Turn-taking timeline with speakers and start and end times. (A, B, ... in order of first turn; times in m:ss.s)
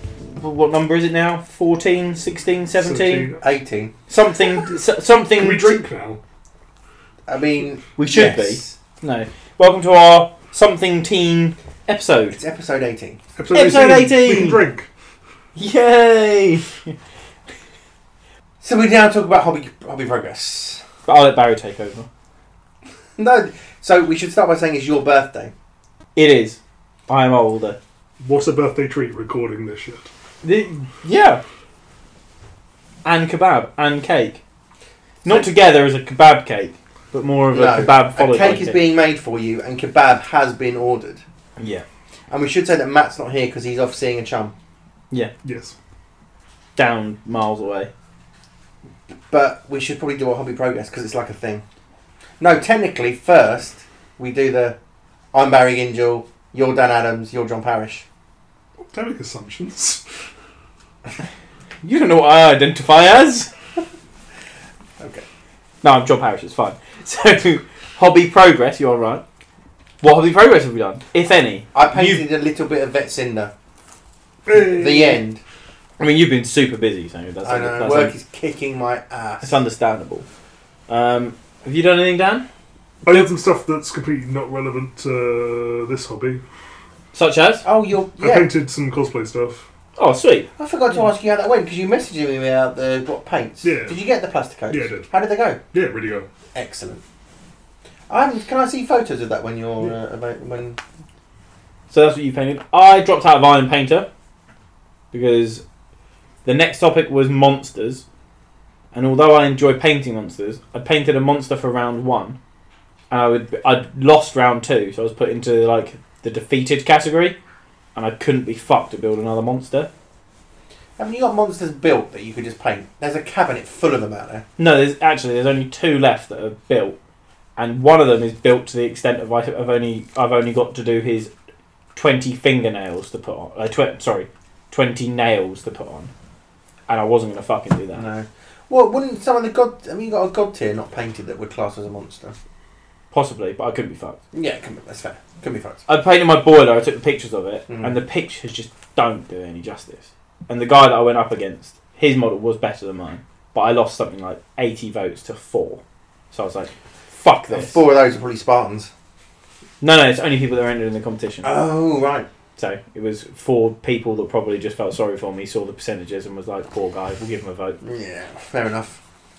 0:00.4-0:03.3 A
0:02.7-0:03.4 B
0:03.4-0:03.9 C
0:04.1-0:05.8 A
0:05.4-0:06.2 B
0:07.3-0:08.8 C
0:08.0-0:12.4 A
0:12.4-0:13.2 C
0:13.4-0:14.9 B
0:13.5-0:14.6 A
0:15.6-0:17.0 A
0:18.6-0:20.8 C
0:21.1-0:22.1 A
0:23.2-0:25.5 C
0:26.2-0:27.8 A
0:28.2-0:30.1 B
0:30.4-0:31.4 A
0:33.0-0:34.4 A
0:35.2-0:35.5 C
0:35.2-0:38.8 A
0:37.5-0:41.2 C
0:41.6-0:41.8 A
0:42.3-0:44.5 C
0:45.4-0:45.8 B
0:46.8-0:47.9 A
0:49.3-0:51.6 C
0:52.4-0:54.8 C
0:55.3-0:58.0 C
0:58.8-1:00.0 B
1:01.8-1:03.5 A
1:05.0-1:05.2 C
1:05.8-1:09.2 A
1:10.0-1:12.2 A
1:11.7-1:13.5 C
1:14.5-1:15.2 B
1:14.5-1:15.4 C
1:16.0-1:18.1 A
1:17.4-1:19.6 C
1:19.4-1:20.3 A
1:20.9-1:22.4 A
1:23.0-1:26.4 B
1:27.1-1:27.6 A
1:27.6-1:28.5 C
1:28.2-1:29.7 B
1:30.0-1:30.5 A
1:30.6-1:35.6 C
1:33.6-1:34.0 B
1:34.7-1:35.1 B
1:35.7-1:36.3 B
1:36.5-1:37.0 C
1:38.1-1:40.8 C
1:41.9-1:44.1 A
1:45.1-1:45.6 A
1:46.4-1:48.0 A
1:48.9-1:52.4 A
1:53.1-1:57.4 A
1:58.0-1:59.9 A
2:01.0-2:04.4 C
2:04.6-2:07.0 A
2:07.6-2:11.3 A
2:12.0-2:16.1 A
2:16.9-2:18.1 A
2:18.0-2:22.4 C
2:23.1-2:24.2 A
2:24.3-2:25.8 C
2:25.9-2:35.8 A
2:27.7-2:28.0 C
2:36.3-2:37.8 A
2:37.5-2:38.9 C
2:39.8-2:41.5 A
2:41.4-2:42.3 C
2:42.6-2:47.8 A
2:47.8-2:49.0 C